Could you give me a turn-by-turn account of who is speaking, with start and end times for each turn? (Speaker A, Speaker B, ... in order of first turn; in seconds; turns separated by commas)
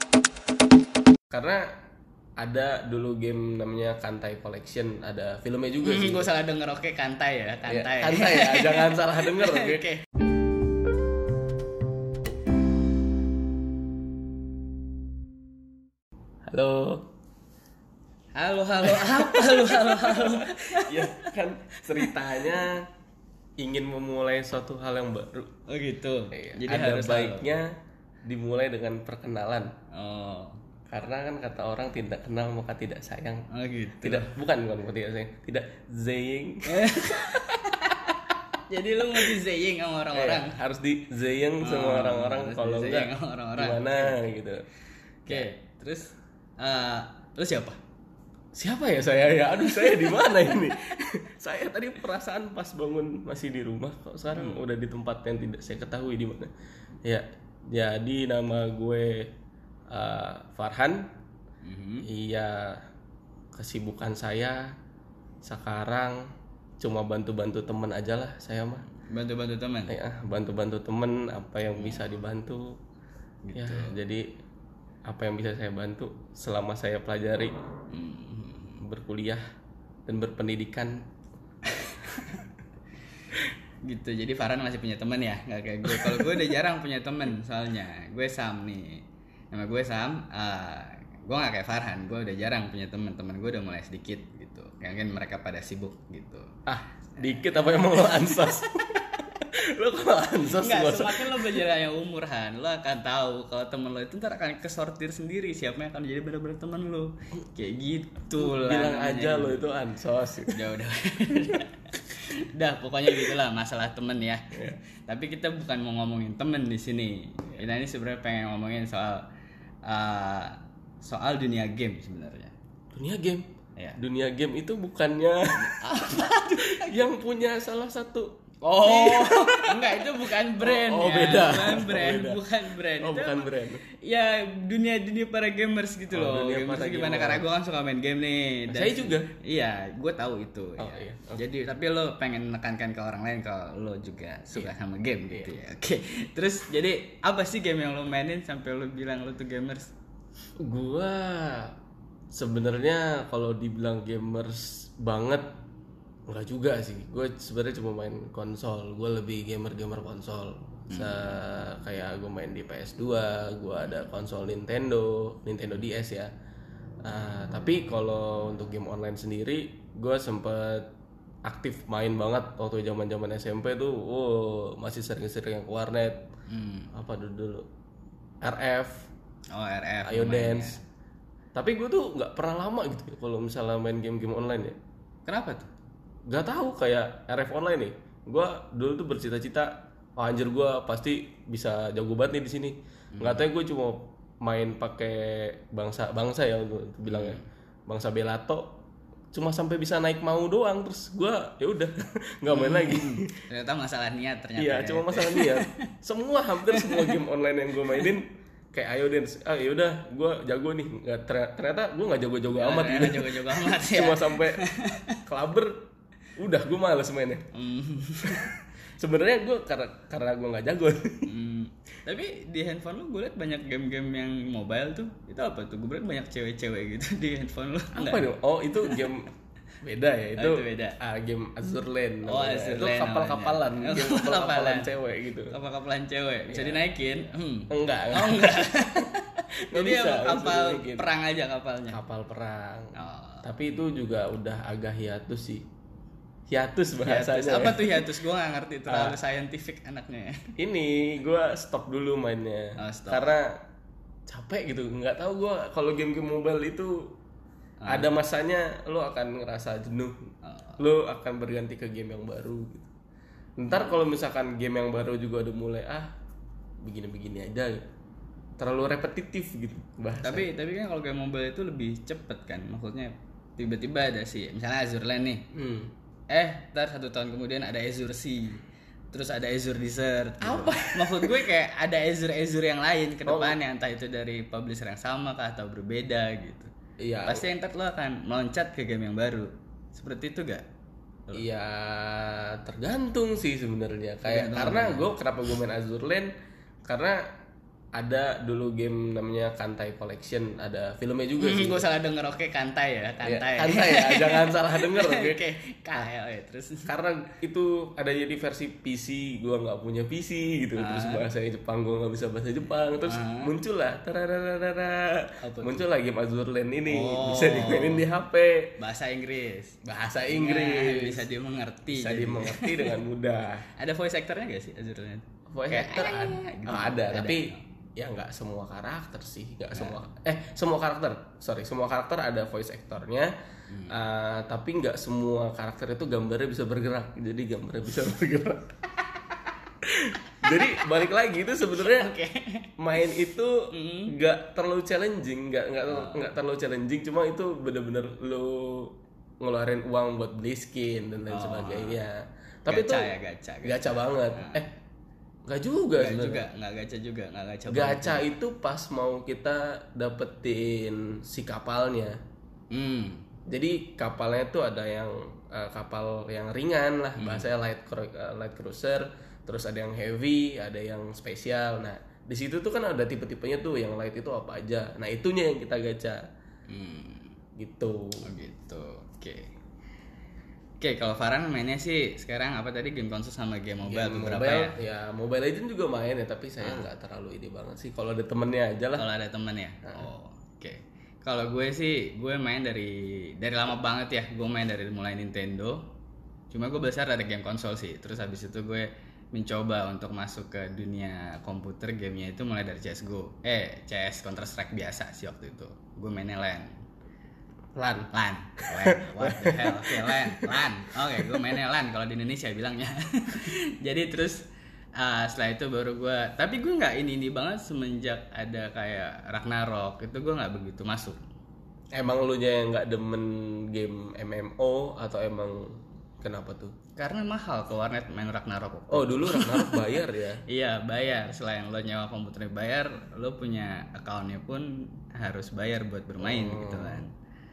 Speaker A: 1.3-1.7, Speaker A: 2.4-6.3, Speaker B: 5.8-10.0, Speaker A: 7.7-9.9, Speaker A: 16.5-17.1, Speaker B: 18.3-22.6, Speaker A: 18.8-22.9, Speaker A: 23.6-25.5, Speaker B: 25.7-27.5, Speaker A: 26.3-27.7, Speaker A: 28.2-29.7, Speaker B: 29.9-30.6, Speaker A: 30.9-33.5, Speaker B: 33.5-34.3, Speaker A: 34.0-36.9, Speaker B: 36.6-38.1, Speaker B: 38.7-40.6, Speaker A: 40.1-44.6, Speaker B: 41.6-44.1, Speaker B: 45.3-47.8, Speaker A: 48.5-56.5, Speaker B: 49.6-51.0, Speaker B: 54.3-54.6, Speaker A: 57.0-59.3, Speaker A: 59.9-61.1, Speaker B: 61.6-62.1, Speaker A: 62.0-62.8, Speaker A: 63.5-64.7, Speaker A: 65.4-66.2, Speaker A: 66.8-68.9, Speaker B: 68.9-70.0, Speaker A: 69.9-72.8, Speaker B: 73.4-74.0, Speaker A: 73.5-74.3, Speaker A: 75.0-77.5, Speaker B: 77.9-78.8, Speaker A: 78.8-79.4, Speaker A: 80.1-81.0, Speaker B: 81.6-82.5, Speaker B: 83.8-96.5, Speaker A: 85.9-86.4, Speaker A: 96.7-101.6, Speaker B: 98.0-98.5, Speaker B: 100.6-109.6, Speaker A: 108.4-110.6, Speaker B: 110.5-119.2, Speaker A: 111.3-111.6, Speaker B: 119.8-122.5, Speaker A: 122.9-132.4, Speaker B: 125.5-127.0, Speaker B: 128.6-149.9, Speaker A: 133.0-133.8, Speaker A: 136.1-137.4, Speaker A: 138.7-139.3, Speaker A: 140.8-141.4, Speaker A: 150.6-151.7, Speaker A: 152.3-155.5, Speaker A: 156.3-166.3, Speaker B: 160.9-161.2, Speaker A: 167.0-170.9, Speaker A: 171.4-176.3, Speaker B: 176.5-176.9, Speaker A: 176.9-177.7, Speaker A: 178.4-179.1, Speaker B: 179.5-180.8, Speaker A: 180.0-180.8, Speaker A: 181.5-184.8, Speaker B: 185.2-185.7, Speaker A: 186.3-198.8, Speaker B: 193.1-193.4, Speaker B: 197.1-197.4, Speaker A: 199.3-203.4, Speaker B: 202.5-205.8, Speaker A: 204.6-214.6, Speaker B: 206.7-207.2, Speaker B: 212.5-215.2, Speaker A: 215.2-215.8, Speaker A: 216.4-217.4, Speaker B: 217.5-218.5, Speaker A: 218.2-221.3, Speaker B: 221.2-228.3, Speaker A: 227.9-235.5, Speaker B: 230.3-231.0, Speaker B: 232.2-234.9, Speaker B: 235.5-242.0, Speaker A: 236.5-236.8, Speaker A: 237.7-239.1, Speaker A: 239.7-241.1, Speaker A: 241.9-245.7, Speaker B: 242.9-243.5, Speaker A: 246.5-248.1, Speaker B: 247.0-250.5, Speaker A: 248.9-249.2, Speaker A: 250.6-253.6, Speaker B: 252.8-253.3, Speaker A: 254.3-257.1, Speaker B: 257.8-258.1, Speaker A: 257.9-260.2, Speaker B: 260.4-260.8, Speaker A: 260.8-262.9, Speaker A: 263.6-266.1, Speaker A: 266.8-267.8, Speaker A: 268.6-270.5, Speaker B: 270.2-275.4, Speaker A: 275.5-275.9, Speaker B: 276.3-278.6, Speaker B: 279.1-286.7, Speaker A: 280.4-281.4, Speaker A: 283.2-283.6, Speaker A: 287.0-287.4, Speaker B: 287.2-290.6, Speaker A: 291.3-296.3, Speaker B: 294.2-295.1, Speaker A: 296.9-297.3, Speaker A: 297.9-301.9, Speaker B: 301.4-306.9, Speaker A: 303.2-305.4, Speaker A: 306.9-318.8, Speaker B: 310.8-311.2, Speaker B: 313.1-313.5, Speaker B: 315.4-315.8, Speaker B: 316.9-318.1, Speaker B: 318.8-322.9, Speaker A: 319.8-321.3, Speaker A: 321.9-323.7, Speaker B: 323.8-327.6, Speaker A: 325.5-333.3, Speaker B: 333.7-334.0, Speaker A: 333.9-338.8, Speaker A: 339.8-342.1, Speaker B: 341.8-342.7, Speaker A: 342.8-353.1, Speaker B: 343.7-344.1, Speaker B: 345.9-346.3, Speaker B: 351.3-352.0, Speaker B: 352.7-354.6, Speaker A: 353.6-354.7, Speaker A: 355.4-356.4, Speaker B: 355.9-358.3, Speaker A: 357.7-362.2, Speaker B: 362.7-363.2, Speaker A: 363.5-376.2, Speaker B: 367.2-367.5, Speaker B: 376.7-377.4, Speaker A: 377.6-378.2, Speaker B: 378.2-379.5, Speaker B: 380.8-384.7, Speaker A: 383.8-389.1, Speaker B: 386.6-386.9, Speaker B: 389.0-395.9, Speaker B: 396.5-406.8, Speaker A: 407.7-408.1, Speaker B: 408.1-414.4, Speaker A: 408.6-410.6, Speaker A: 411.2-411.4, Speaker B: 415.0-421.2, Speaker A: 421.9-426.7, Speaker B: 426.9-437.1, Speaker A: 428.9-430.4, Speaker A: 436.2-437.0